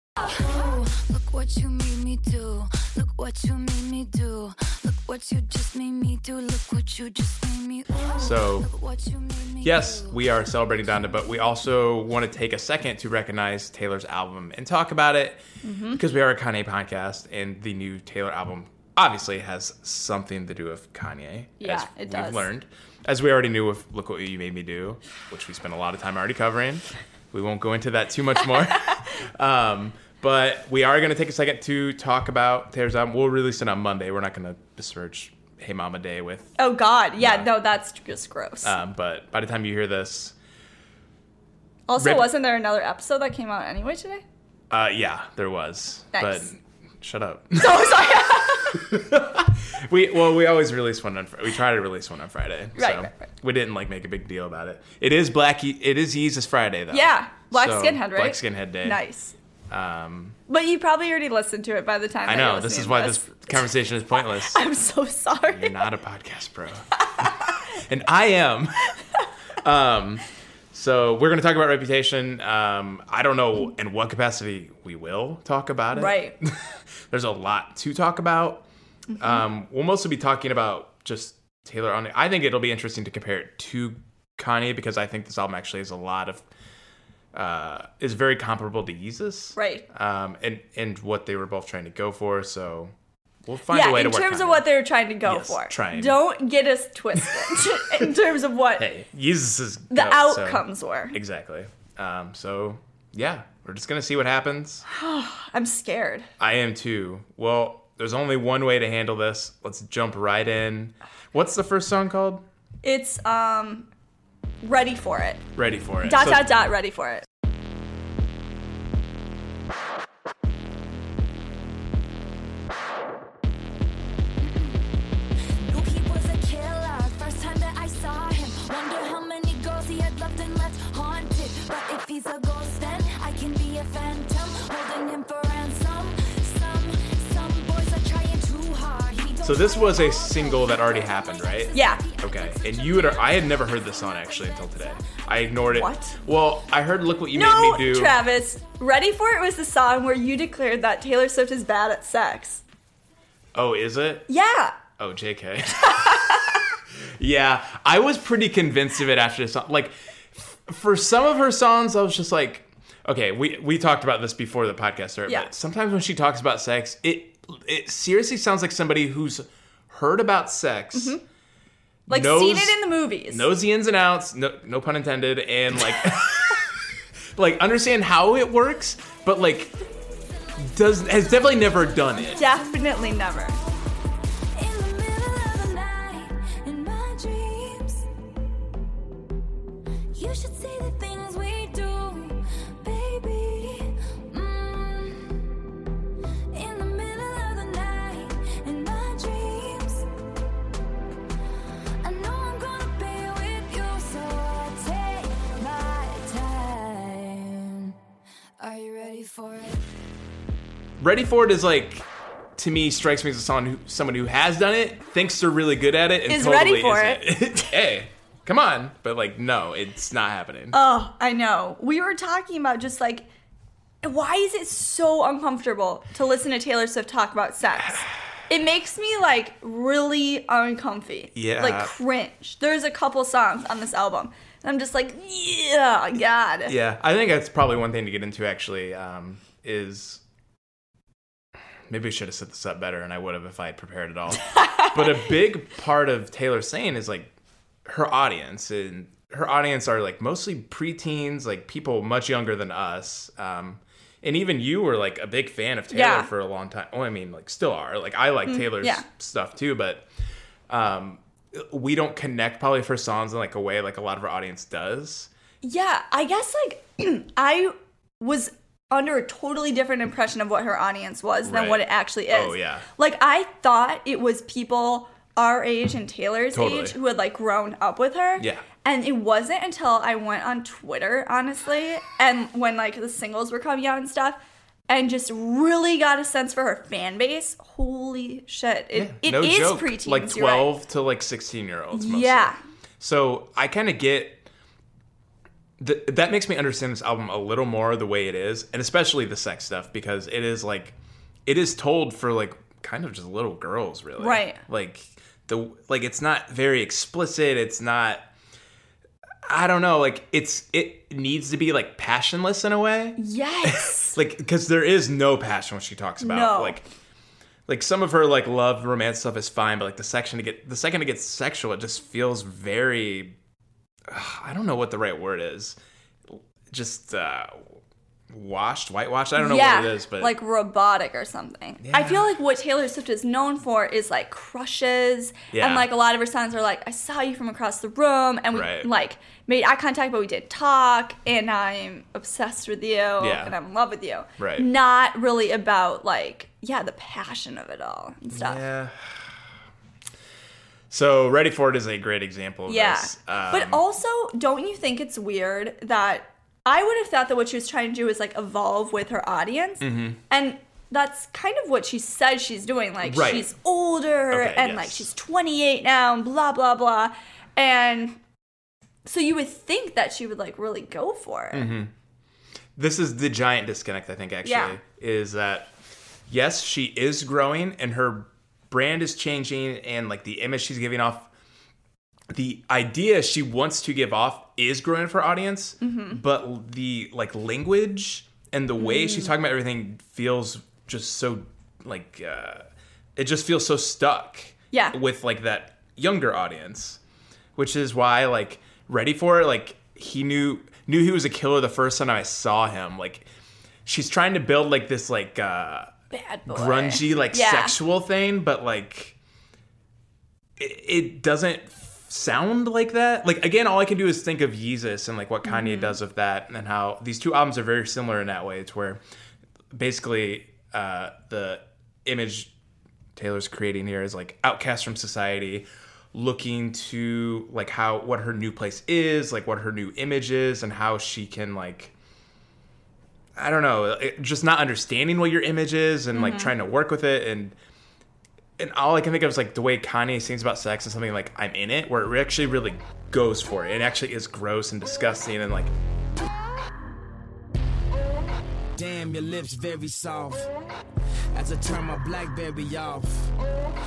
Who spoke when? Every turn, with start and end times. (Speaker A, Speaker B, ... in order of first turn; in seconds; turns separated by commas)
Speaker A: 0.2-10.2, Speaker B: 8.2-8.7, Speaker B: 9.6-36.5, Speaker C: 15.6-16.0, Speaker C: 21.6-22.5, Speaker C: 36.6-38.7, Speaker B: 37.2-37.5, Speaker B: 38.6-40.3, Speaker C: 41.9-44.2, Speaker B: 42.0-42.3, Speaker B: 44.7-48.2, Speaker C: 46.1-46.5, Speaker C: 47.5-48.8, Speaker B: 48.7-59.0, Speaker C: 52.8-53.2, Speaker C: 56.9-59.3, Speaker B: 59.7-60.4, Speaker C: 60.5-65.8, Speaker B: 62.2-64.6, Speaker B: 65.5-68.9, Speaker C: 67.0-67.6, Speaker B: 69.6-78.6, Speaker C: 75.9-76.3, Speaker C: 79.1-79.4, Speaker B: 79.2-86.4, Speaker B: 87.3-92.9, Speaker C: 89.5-89.8, Speaker B: 93.4-94.6, Speaker C: 93.7-98.9, Speaker B: 95.2-96.2, Speaker B: 97.2-98.1, Speaker B: 98.8-104.8, Speaker C: 99.9-101.2, Speaker C: 104.9-106.3, Speaker B: 106.4-112.4, Speaker C: 112.8-113.9, Speaker C: 114.6-115.4, Speaker B: 115.5-116.5, Speaker C: 116.0-117.2, Speaker A: 125.6-145.1, Speaker B: 139.4-148.2, Speaker C: 141.7-142.0, Speaker C: 145.7-146.2, Speaker C: 147.3-152.6, Speaker B: 153.5-154.3, Speaker C: 154.3-154.8, Speaker B: 155.0-171.2, Speaker C: 155.8-156.7, Speaker C: 170.9-171.2, Speaker C: 172.1-173.5, Speaker B: 172.1-172.8, Speaker B: 173.3-179.7, Speaker B: 180.6-182.4, Speaker C: 182.3-183.6, Speaker A: 184.5-188.1, Speaker A: 190.1-195.5, Speaker A: 196.5-200.0, Speaker A: 202.0-207.9, Speaker A: 208.6-209.8, Speaker B: 211.0-212.1, Speaker B: 212.6-220.8, Speaker C: 216.3-217.7, Speaker C: 220.7-223.3, Speaker C: 224.0-236.7, Speaker B: 231.3-231.9, Speaker B: 236.7-240.2, Speaker B: 241.9-247.3, Speaker C: 244.5-244.9, Speaker B: 247.8-260.1, Speaker C: 255.9-256.3, Speaker C: 258.4-259.0, Speaker B: 260.7-265.3, Speaker C: 265.6-290.7, Speaker B: 271.4-272.9, Speaker B: 276.5-276.9, Speaker B: 278.4-278.6, Speaker B: 288.9-294.5, Speaker C: 291.9-292.6, Speaker B: 295.8-308.3, Speaker C: 304.2-304.6, Speaker B: 309.5-316.8, Speaker C: 313.2-314.2, Speaker C: 316.2-316.8, Speaker B: 317.7-323.4, Speaker B: 324.1-325.8, Speaker B: 326.3-327.8, Speaker B: 328.3-330.3, Speaker C: 329.4-348.6, Speaker B: 331.8-332.2, Speaker B: 335.5-335.9, Speaker B: 338.5-338.9, Speaker B: 343.2-343.6, Speaker B: 344.4-344.7, Speaker B: 348.3-349.4, Speaker B: 350.9-353.8, Speaker C: 352.7-368.2, Speaker B: 359.8-360.2, Speaker B: 363.0-363.5, Speaker B: 364.3-365.1, Speaker C: 369.0-371.7, Speaker B: 371.5-371.9, Speaker B: 372.8-375.7, Speaker C: 374.4-374.8, Speaker B: 376.3-381.3, Speaker B: 382.3-397.0, Speaker C: 385.8-386.2, Speaker C: 388.8-389.3, Speaker B: 397.6-403.3, Speaker B: 403.9-405.9, Speaker C: 406.1-407.8, Speaker B: 406.5-409.1, Speaker B: 410.6-419.0, Speaker C: 415.4-416.0, Speaker B: 419.7-422.5, Speaker B: 423.1-431.9, Speaker B: 433.4-437.5, Speaker C: 436.1-436.5, Speaker B: 438.6-445.7, Speaker D: 448.8-450.5, Speaker D: 451.3-453.3